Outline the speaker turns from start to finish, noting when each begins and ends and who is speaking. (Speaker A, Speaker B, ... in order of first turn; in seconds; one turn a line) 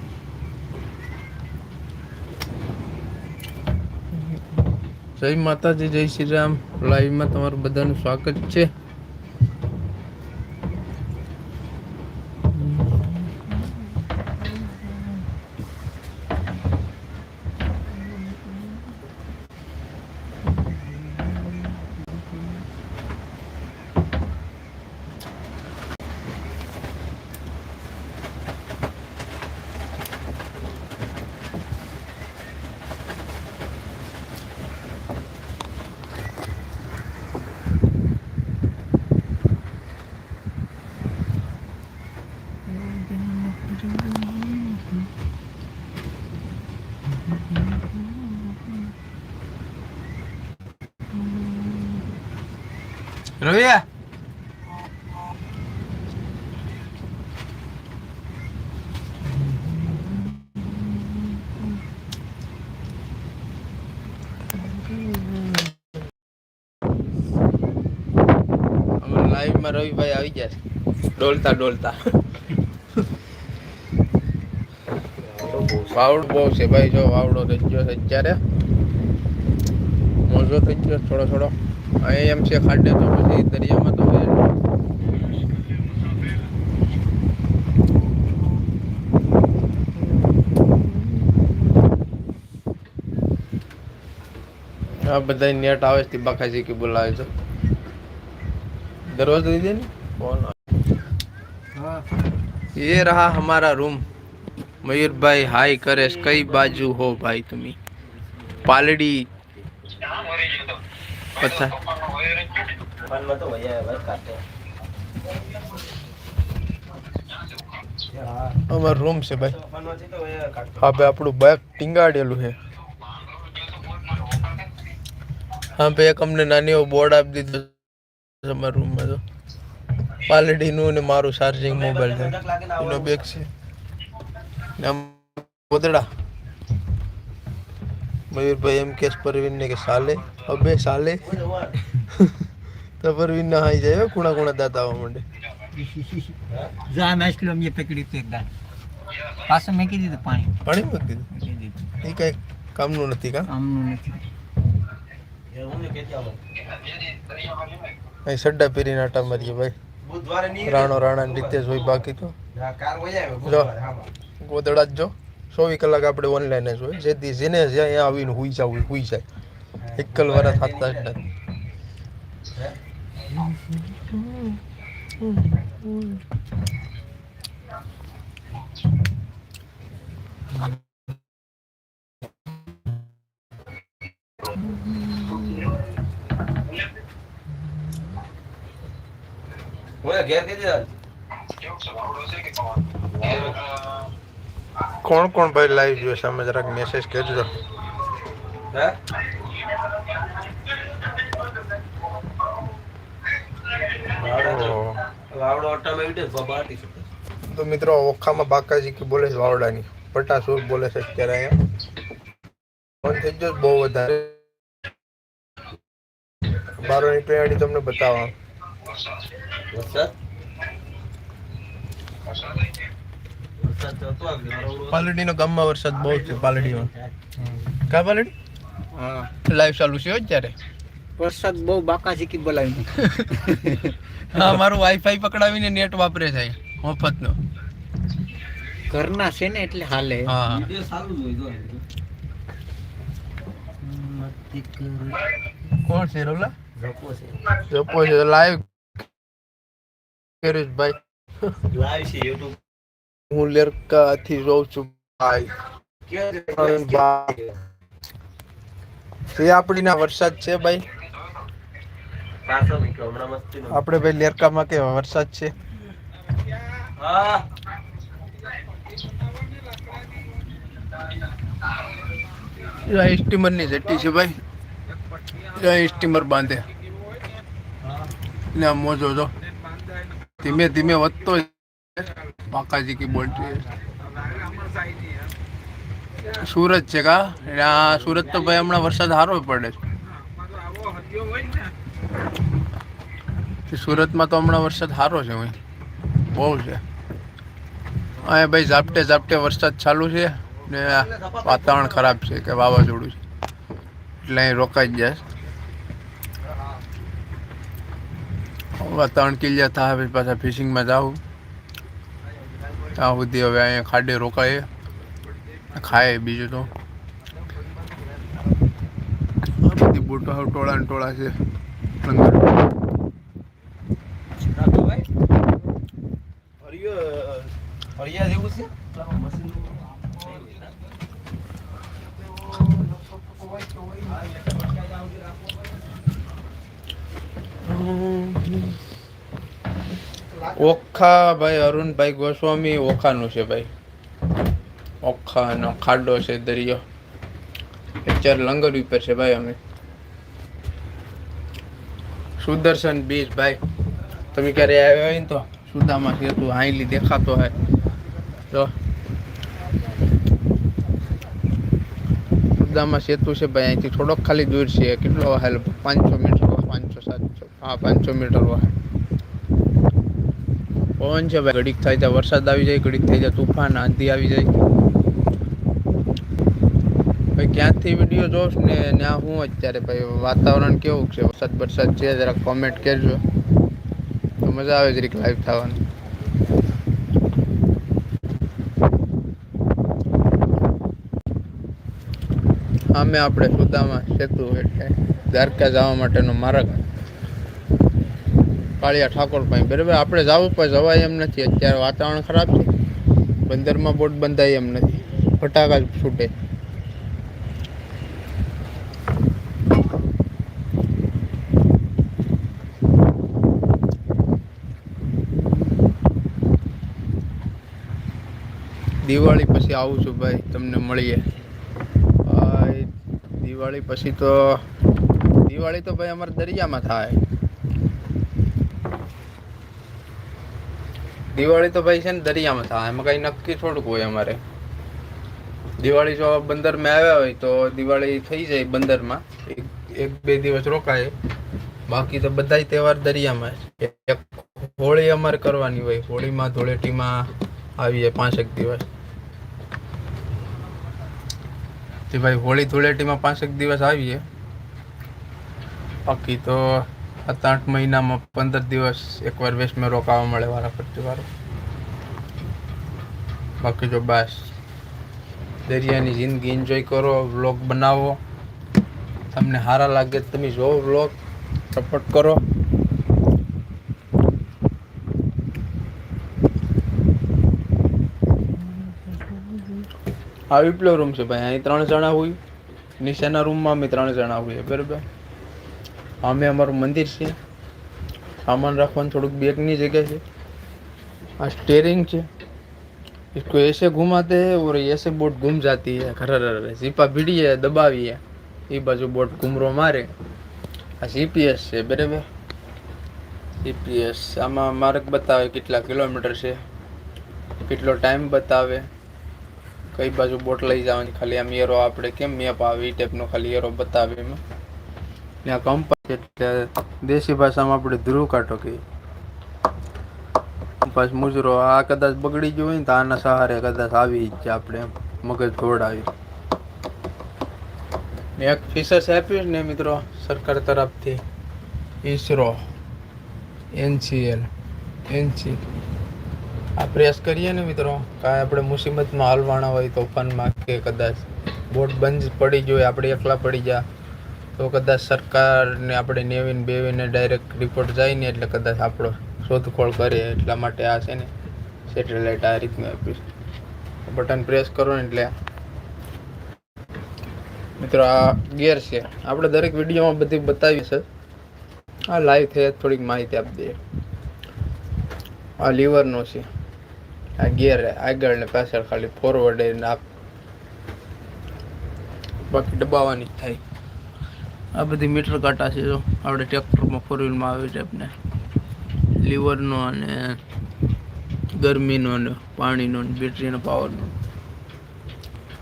Speaker A: 5.2-8.7
Speaker A: 53.4-53.8
Speaker A: 69.0-70.6
Speaker A: 71.1-72.0
Speaker B: 75.2-76.0
Speaker A: 75.9-78.4
Speaker A: 80.2-84.5
Speaker A: 90.0-91.5
Speaker A: 95.0-97.3
Speaker A: 99.0-100.5
Speaker A: 102.7-104.0
Speaker A: 104.8-107.8
Speaker A: 108.6-109.3
Speaker A: 111.3-112.1
Speaker B: 113.0-114.4
Speaker B: 118.1-118.6
Speaker A: 118.7-119.6
Speaker B: 119.5-120.8
Speaker A: 120.8-122.5
Speaker A: 125.8-129.2
Speaker A: 130.2-133.5
Speaker B: 131.7-133.3
Speaker A: 134.8-136.1
Speaker A: 138.3-141.4
Speaker B: 141.2-141.8
Speaker A: 142.1-142.4
Speaker A: 143.0-145.2
Speaker C: 145.7-148.5
Speaker C: 149.4-150.6
Speaker A: 150.6-151.3
Speaker C: 151.3-151.8
Speaker A: 152.0-153.5
Speaker C: 153.4-154.2
Speaker B: 155.5-156.4
Speaker A: 158.2-159.7
Speaker B: 160.0-161.7
Speaker A: 160.6-162.3
Speaker B: 162.5-164.1
Speaker A: 163.4-163.7
Speaker A: 164.4-169.2
Speaker B: 169.8-171.2
Speaker A: 169.9-171.2
Speaker A: 173.9-174.6
Speaker A: 175.3-176.2
Speaker A: 184.9-185.7
Speaker B: 190.0-190.9
Speaker B: 193.1-193.6
Speaker A: 195.0-197.5
Speaker B: 198.7-199.0
Speaker B: 204.0-207.1
Speaker A: 204.3-205.0
Speaker A: 207.5-211.6
Speaker A: 213.0-214.4
Speaker A: 216.7-218.3
Speaker B: 219.6-220.1
Speaker B: 223.6-225.1
Speaker A: 224.9-226.9
Speaker B: 225.9-227.6
Speaker A: 227.8-228.3
Speaker C: 228.9-229.3
Speaker A: 229.4-230.5
Speaker C: 231.2-234.0
Speaker A: 233.0-233.4
Speaker A: 234.3-237.4
Speaker C: 238.9-240.4
Speaker A: 240.2-240.7
Speaker B: 240.4-241.8
Speaker B: 243.8-245.2
Speaker A: 245.8-246.5
Speaker B: 246.8-247.6
Speaker A: 247.6-248.7
Speaker A: 250.4-251.0
Speaker B: 251.7-252.6
Speaker A: 253.3-255.5
Speaker B: 256.1-257.5
Speaker A: 256.6-257.4
Speaker A: 259.3-260.8
Speaker B: 262.4-263.8
Speaker A: 263.7-265.5
Speaker B: 266.9-267.4
Speaker A: 272.7-274.4
Speaker A: 275.4-276.6
Speaker A: 278.5-279.3
Speaker A: 280.2-283.7
Speaker B: 283.4-284.8
Speaker A: 286.2-289.8
Speaker B: 288.3-288.5
Speaker A: 293.7-295.6
Speaker A: 296.3-296.8
Speaker A: 298.2-303.2
Speaker B: 300.9-302.0
Speaker A: 304.2-305.2
Speaker A: 308.8-311.2
Speaker A: 312.9-314.7
Speaker A: 315.7-316.7
Speaker A: 319.5-321.3
Speaker A: 322.0-322.5
Speaker B: 324.5-325.0
Speaker B: 326.6-330.7
Speaker B: 333.8-335.4
Speaker A: 337.6-338.8
Speaker A: 340.4-343.7
Speaker A: 345.0-346.8
Speaker A: 348.0-349.6
Speaker A: 352.4-353.6
Speaker A: 354.3-357.5
Speaker A: 362.6-368.7
Speaker A: 371.0-374.6
Speaker A: 377.4-383.2
Speaker A: 384.4-385.8
Speaker A: 392.9-396.9
Speaker A: 398.8-402.7
Speaker A: 403.4-406.3
Speaker A: 419.0-421.2
Speaker A: 422.2-424.6
Speaker A: 425.4-427.2
Speaker A: 431.3-434.4
Speaker A: 435.8-441.1
Speaker A: 441.9-448.9
Speaker A: 452.1-454.2
Speaker A: 456.1-461.3
Speaker A: 463.6-464.5
Speaker A: 465.6-468.2
Speaker A: 469.3-471.1
Speaker A: 471.7-472.4
Speaker A: 479.1-479.8
Speaker A: 480.5-482.4
Speaker A: 483.0-485.0
Speaker A: 486.2-487.4
Speaker A: 488.4-490.2
Speaker A: 491.4-492.3
Speaker A: 493.3-500.1
Speaker A: 501.0-502.2
Speaker A: 503.6-506.6
Speaker A: 507.6-508.9
Speaker A: 509.9-514.4
Speaker A: 515.4-518.8
Speaker A: 520.8-526.1
Speaker A: 528.4-531.2
Speaker A: 532.0-532.6
Speaker A: 533.7-534.5
Speaker A: 535.1-535.6
Speaker A: 536.8-543.8
Speaker A: 544.6-551.3
Speaker A: 551.9-553.2
Speaker A: 554.0-555.3
Speaker A: 557.8-561.0
Speaker A: 562.1-563.8
Speaker A: 565.6-566.5
Speaker A: 567.4-570.0
Speaker A: 572.4-573.6
Speaker A: 574.7-578.1
Speaker A: 579.2-580.4
Speaker A: 581.5-584.1